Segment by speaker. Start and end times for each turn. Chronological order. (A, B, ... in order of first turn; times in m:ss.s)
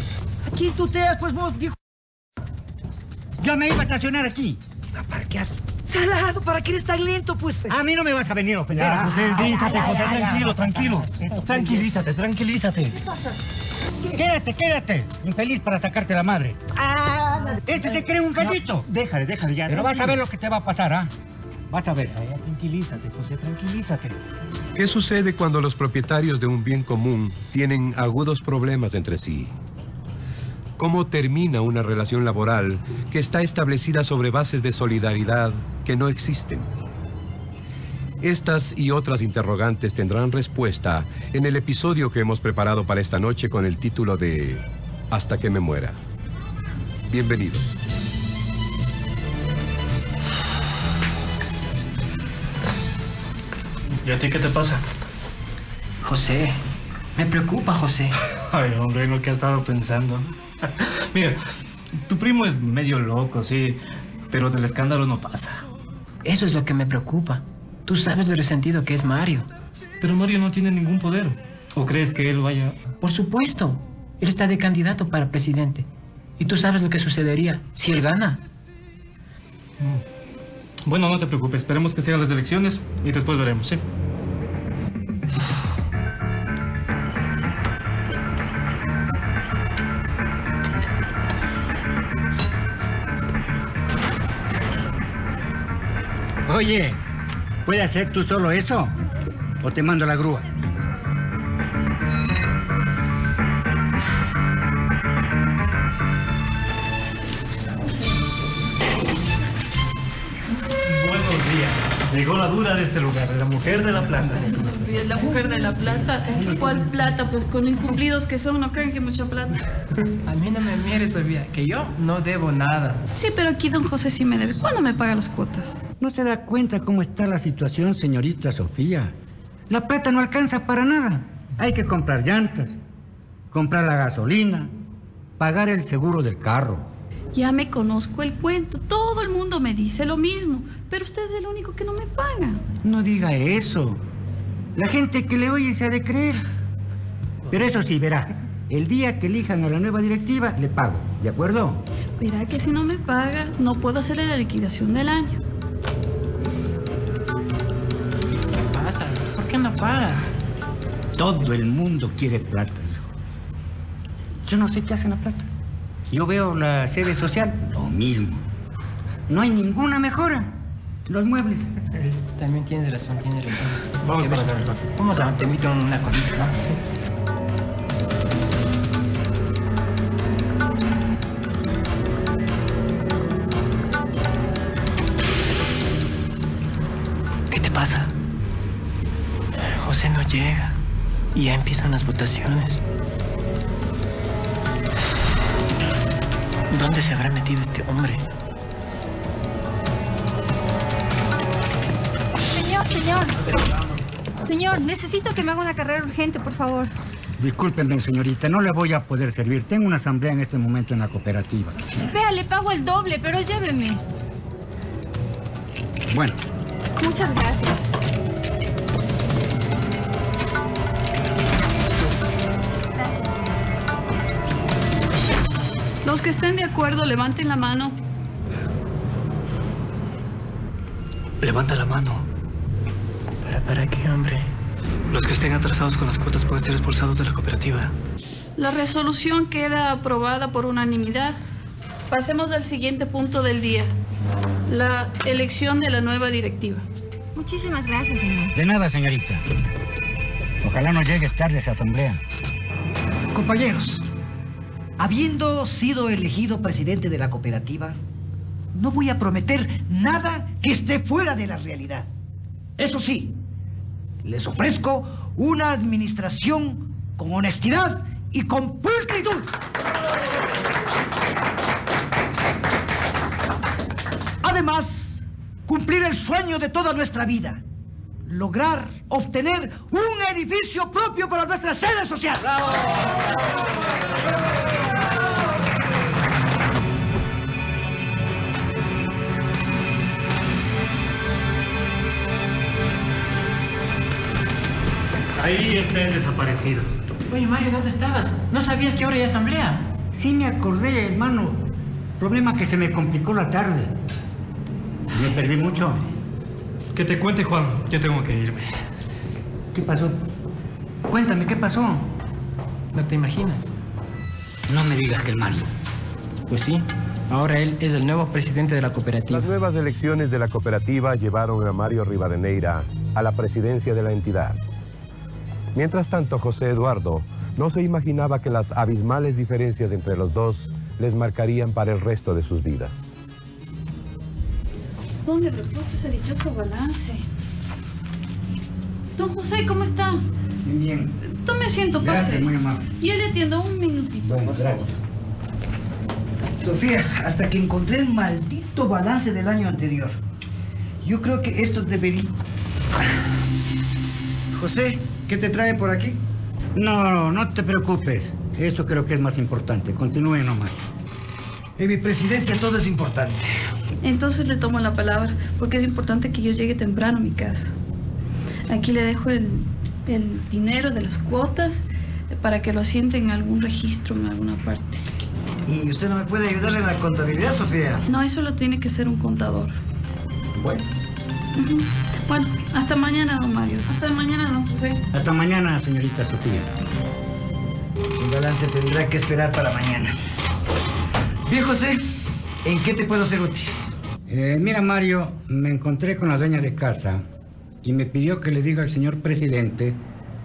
0:00.4-0:01.8 A
0:03.4-0:04.6 B
0:04.9-0:07.7 A
0:07.7-0:11.9 B
0:08.8-0:11.9 A
0:09.3-0:12.7 C
0:12.9-0:13.4 A
0:14.1-0:16.6 B
0:16.8-0:17.6 A
0:17.6-0:18.9 B
0:18.9-0:20.1 C
0:19.6-0:21.1 B
0:21.7-0:22.2 B
0:22.3-0:24.1 C
0:24.8-0:29.5 D
0:30.8-0:36.7 D
0:38.2-0:46.0 D
0:47.1-0:47.7 D
0:54.0-0:54.8 C
0:56.0-0:56.6 E
0:57.2-0:58.1 E
0:58.5-1:01.4 C
1:02.0-1:03.8 C
1:04.3-1:05.6 C
1:06.2-1:09.5 E
1:10.0-1:12.8 C
1:13.0-1:15.8 E
1:16.4-1:18.4 E
1:20.8-1:23.8 C
1:36.4-1:37.0 B
1:37.6-1:39.0 B
1:39.6-1:40.5 B
1:50.9-1:54.5 C
1:54.5-1:59.6 F
2:00.2-2:03.0 E
2:03.1-2:05.8 F
2:06.0-2:09.1 B
2:09.7-2:12.8 B
2:13.5-2:14.7 B
2:15.4-2:16.9 B
2:17.3-2:22.6 F
2:22.8-2:24.0 B
2:24.8-2:26.4 B
2:27.5-2:31.8 B
2:32.2-2:35.4 F
2:38.6-2:40.3 E
2:41.2-2:43.1 B
2:44.4-2:45.5 B
2:46.1-2:48.4 B
2:49.3-2:50.5 B
2:51.1-2:51.7 B
2:52.0-2:56.8 E
2:54.0-2:54.7 C
3:07.5-3:08.1 G
3:09.6-3:10.8 E
3:11.3-3:12.8 E
3:16.7-3:18.2 E
3:22.5-3:23.6 H
3:24.4-3:26.9 H
3:27.4-3:31.9 B
3:32.1-3:34.0 H
3:36.1-3:36.4 B
3:37.0-3:37.8 H
3:43.0-3:43.6 H
3:46.0-3:48.0 F
3:51.4-3:52.2 G
3:53.4-3:54.5 E
3:55.1-3:57.9 G
3:58.6-4:01.4 F
4:02.1-4:03.9 F
4:04.7-4:06.8 F
4:07.3-4:08.5 H
4:08.5-4:09.4 B
4:10.6-4:12.2 B
4:13.3-4:14.0 A
4:15.0-4:18.0 A
4:18.7-4:22.1 A
4:22.8-4:23.4 A
4:24.2-4:29.5 A
4:34.4-4:37.6 A
4:38.2-4:42.8 A
4:55.4-4:56.9 C
4:57.3-4:59.9 E
5:00.1-5:03.9 B
5:05.1-5:06.0 B
5:06.9-5:08.8 C
5:09.7-5:10.2 B
5:11.1-5:12.1 B
5:12.9-5:13.7 E
5:14.7-5:15.7 B
5:16.5-5:19.5 E
5:19.3-5:24.6 D
5:25.7-5:32.9 D
5:35.2-5:37.2 F
5:39.2-5:40.2 F
5:40.6-5:41.2 B
5:41.2-5:45.0 F
5:42.0-5:42.9 B
5:44.2-5:44.9 B
5:46.6-5:50.2 A
5:51.0-5:52.4 A
5:54.5-5:56.2 A
5:56.7-6:00.8 B
6:01.8-6:03.5 A
6:04.0-6:07.7 F
6:08.7-6:15.0 F
6:15.7-6:18.0 A
6:18.1-6:19.8 F
6:20.5-6:20.8 A
6:21.5-6:25.0 F
6:25.1-6:26.7 B
6:28.2-6:30.1 A
6:31.4-6:32.0 A
6:32.6-6:33.7 A
6:34.3-6:37.2 B
6:37.8-6:40.0 B